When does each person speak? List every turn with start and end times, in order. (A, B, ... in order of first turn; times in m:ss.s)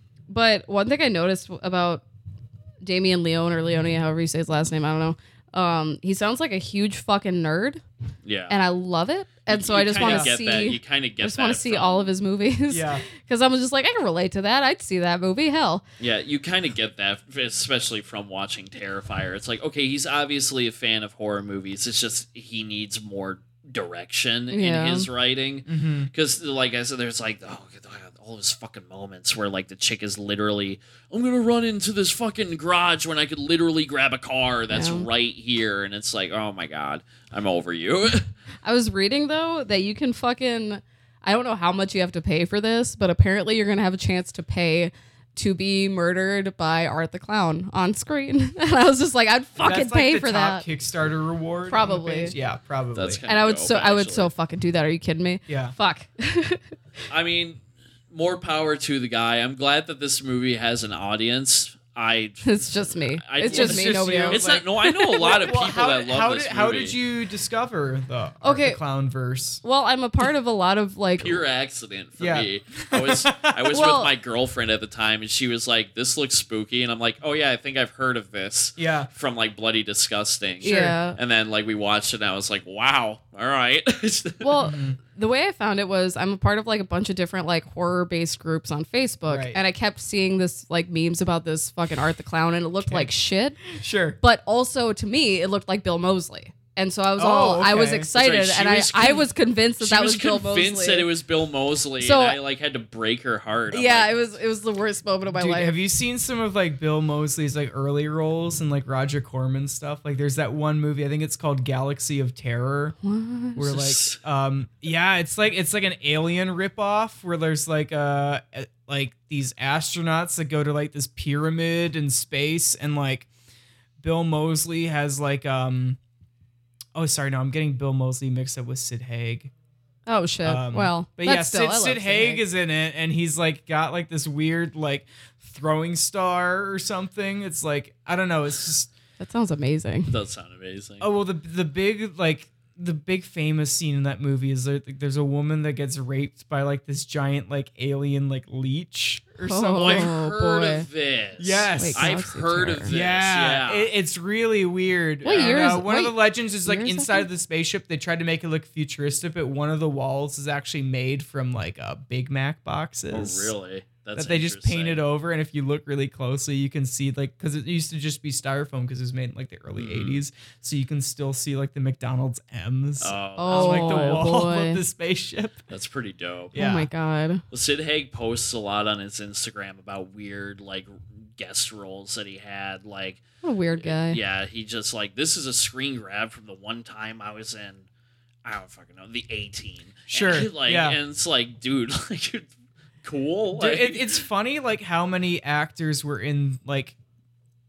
0:00.3-0:02.0 A
0:02.8-0:07.8 A
0:08.2-0:08.6 B
0:08.5-0:15.8 A
0:09.5-0:12.1 B
0:10.0-0:10.4 C
0:12.7-0:13.1 C
0:16.0-0:38.3 B
0:24.5-0:25.1 A
0:25.7-0:26.1 C
0:34.7-0:35.1 A
0:38.6-0:50.7 A
0:49.6-0:53.2 C
0:51.7-0:52.3 A
0:53.0-0:54.3 B
0:53.3-0:56.6 A
0:55.5-0:55.7 C
0:57.1-0:57.6 B
0:58.1-1:07.0 B
1:02.4-1:05.5 A
1:03.4-1:09.6 C
1:08.4-1:08.8 A
1:09.6-1:11.4 A
1:11.2-1:24.4 B
1:12.2-1:13.8 C
1:13.7-1:14.1 A
1:18.8-1:19.1 C
1:20.6-1:21.2 A
1:20.6-1:21.0 C
1:24.4-1:33.6 A
1:24.6-1:25.0 C
1:29.3-1:29.6 C
1:32.9-1:33.1 C
1:33.7-1:34.2 C
1:34.2-1:41.1 A
1:37.2-1:38.1 C
1:38.2-1:44.2 B
1:42.0-1:42.4 A
1:43.7-1:45.8 A
1:45.3-1:53.0 C
1:53.0-1:53.6 A
1:53.6-2:03.3 C
1:53.6-1:54.2 B
2:04.0-2:06.0 C
2:07.0-2:09.5 C
2:10.1-2:12.4 A
2:10.4-2:18.9 C
2:19.2-2:20.1 A
2:20.1-2:21.1 B
2:21.0-2:30.2 C
2:29.4-2:30.9 A
2:29.8-2:33.9 B
2:31.4-2:32.2 C
2:31.8-2:33.0 A
2:32.9-2:43.5 C
2:35.2-2:37.3 A
2:35.2-2:35.6 B
2:43.1-2:45.0 B
2:44.2-2:55.6 C
2:49.8-2:50.2 B
2:53.0-2:54.3 B
2:53.4-2:54.8 A
2:55.7-2:56.6 B
2:56.5-2:56.9 C
2:56.5-2:57.4 A
2:57.5-3:03.2 B
3:03.4-3:04.2 A
3:03.8-3:07.8 B
3:08.4-3:12.5 B
3:10.1-3:11.0 C
3:13.0-3:14.2 B
3:13.5-3:17.0 C